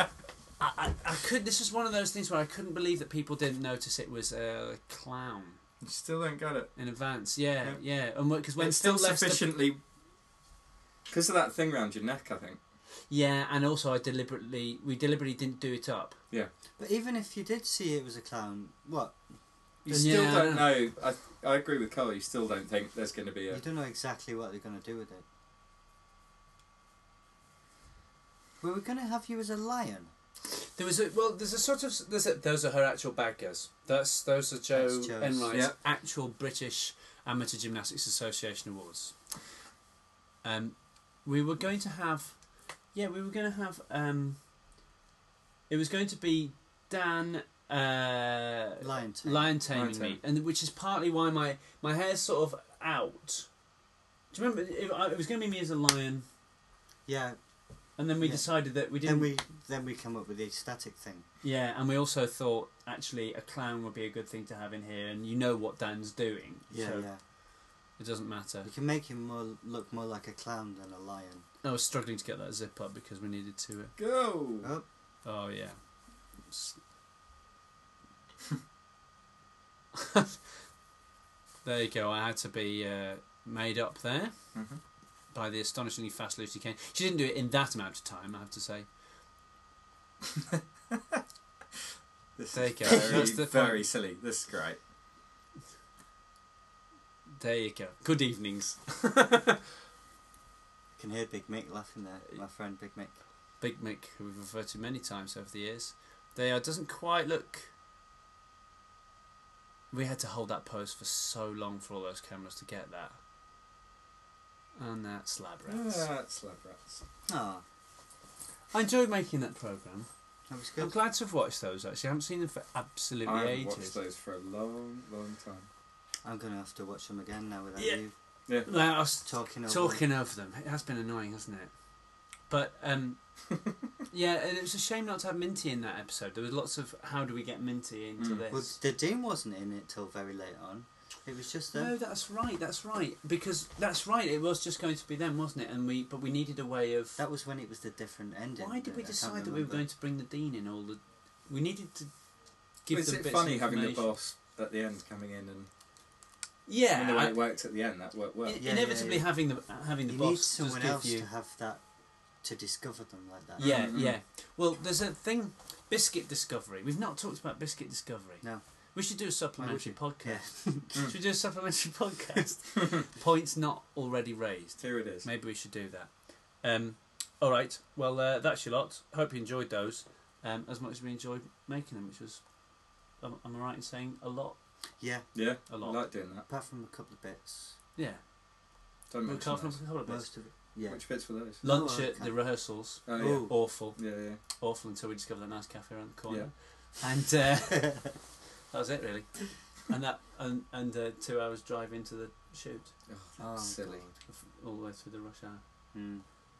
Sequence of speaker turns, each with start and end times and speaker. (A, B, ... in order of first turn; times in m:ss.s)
0:00.6-0:05.6 A
0:05.8-0:06.8 B
0:06.8-0:09.5 A
0:08.6-0:09.8 B
0:11.1-0:12.6 B
0:13.1-0:16.2 A
0:16.8-0:19.2 C
0:19.8-0:23.6 B
0:19.9-0:20.2 C
0:19.9-0:20.8 A
0:23.5-0:25.2 C
0:28.6-0:30.1 C
0:30.5-0:39.1 A
0:34.7-0:35.5 C
0:40.4-0:44.4 A
0:45.7-0:53.5 A
0:48.8-0:49.6 C
0:49.7-0:50.2 B
0:54.3-0:56.2 A
0:57.0-0:57.4 C
0:58.0-0:59.4 A
0:58.2-1:01.2 C
1:01.4-1:07.1 A
1:06.7-1:07.2 C
1:07.7-1:08.7 A
1:08.6-1:11.4 C
1:11.6-1:13.9 A
1:14.0-1:14.7 B
1:15.2-1:15.8 A
1:16.3-1:16.8 A
1:20.0-1:20.3 A
1:21.6-1:24.4 A
1:24.5-1:24.8 B
1:25.3-1:28.9 A
1:32.4-1:34.8 B
1:32.5-1:33.8 A
1:37.4-1:39.6 A
1:41.0-1:43.1 C
1:43.6-1:47.7 A
1:49.9-1:53.2 A
1:54.8-1:56.1 A
1:55.7-1:57.0 B
1:57.2-1:57.6 C
1:58.7-2:00.1 A
2:00.5-2:00.9 C
2:00.8-2:04.0 A
2:03.2-2:05.7 B
2:06.2-2:08.1 C
2:07.8-2:08.0 A
2:08.6-2:11.7 A
2:09.2-2:10.0 C
2:12.4-2:13.2 A
2:14.1-2:18.8 A
2:18.2-2:18.4 B
2:18.5-2:21.9 C
2:21.7-2:27.2 A
2:27.2-2:29.8 C
2:28.6-2:32.1 A
2:32.8-2:34.1 A
2:32.9-2:35.7 B
2:36.6-2:37.4 A
2:36.9-2:38.6 B
2:38.4-2:41.2 A
2:38.6-2:39.3 C
2:40.1-2:41.8 C
2:42.4-2:43.9 C
2:43.6-3:02.4 A
2:43.6-2:44.2 B
2:49.6-2:51.1 C
2:54.8-2:55.3 B
3:03.2-3:04.6 A
3:05.0-3:05.3 C
3:05.3-3:06.4 B
3:05.7-3:06.0 A
3:06.4-3:07.8 C
3:08.0-3:08.2 A
3:09.1-3:09.8 B
3:09.2-3:10.3 A
3:10.0-3:12.5 C
3:10.9-3:11.6 B
3:11.6-3:23.0 A
3:13.1-3:13.5 C
3:13.1-3:14.4 B
3:16.3-3:16.7 B
3:23.1-3:24.2 B
3:23.4-3:24.1 C
3:24.2-3:25.6 A
3:25.9-3:26.2 C